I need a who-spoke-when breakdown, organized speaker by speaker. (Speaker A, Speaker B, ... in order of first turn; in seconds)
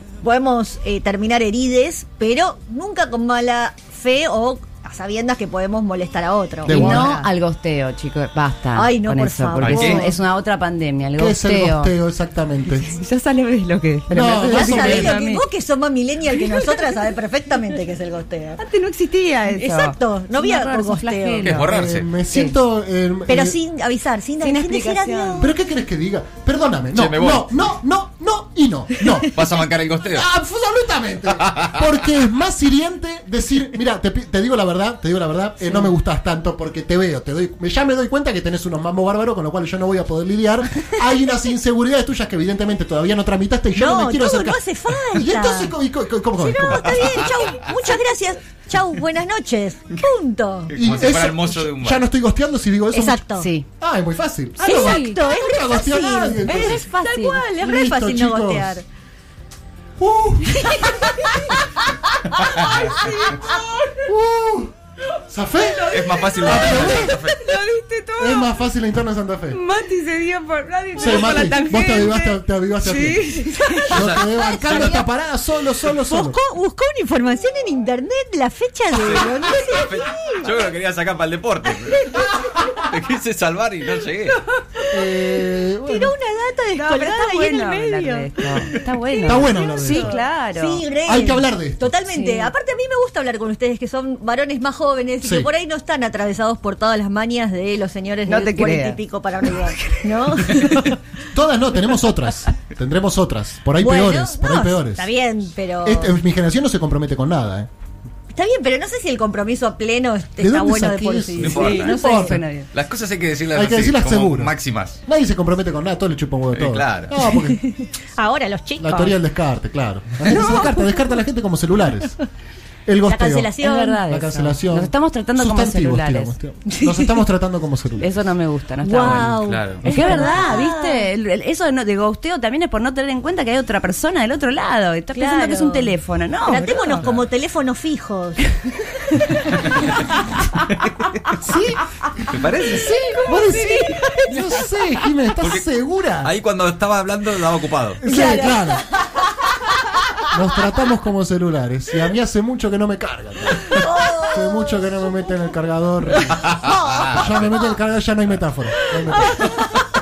Speaker A: 0.2-7.3, 8.8-10.1, 14.4-18.6, 19.5-21.5, 23.3-25.5, 43.8-45.7, 46.4-50.7, 52.9-53.5, 54.6-58.8, 60.6-61.6, 62.4-63.6, 76.1-80.5, 85.9-88.5, 89.1-101.0, 103.8-106.2, 108.3-112.4, 117.5-119.2, 123.0-124.0, 126.7-127.1, 128.8-131.1, 135.1-138.4, 148.1-148.8, 153.7-154.9, 156.7-157.1
Speaker B: 6.6-7.2, 9.8-10.0, 11.2-12.9, 14.1-15.2, 21.5-23.6, 25.4-29.4, 30.1-44.6, 45.1-47.2, 50.8-56.9, 57.6-58.8, 60.0-61.1, 64.0-64.7, 65.3-67.3, 68.2-69.6, 71.0-76.4, 84.9-86.1, 89.2-90.2, 91.0-92.0, 95.2-95.5, 101.3-105.1, 105.8-107.7, 110.4-112.4, 113.5-114.5, 115.1-117.6, 118.8-122.2, 122.9-128.3, 129.9-130.4, 141.4-142.3, 143.2-146.3, 148.0-148.8, 150.3-159.6
Speaker C: 6.7-11.9, 12.7-15.4, 16.4-16.8, 18.6-21.7, 24.4-25.5, 53.4-53.7, 54.6-55.2, 56.4-57.5, 65.9-68.5, 69.5-74.0, 86.8-90.8, 92.1-92.5, 98.3-99.0, 99.7-100.8, 111.5-112.7, 123.6-126.3, 128.0-137.1, 142.8-144.2
Speaker D: 9.6-10.0, 21.4-22.1, 26.9-27.5, 29.3-30.3, 31.4-31.8, 50.7-52.0, 65.9-67.5, 73.9-75.0, 78.9-84.4, 111.4-112.0, 112.7-115.0, 116.5-117.2, 129.0-129.8, 142.3-142.9, 146.2-148.0, 156.4-157.5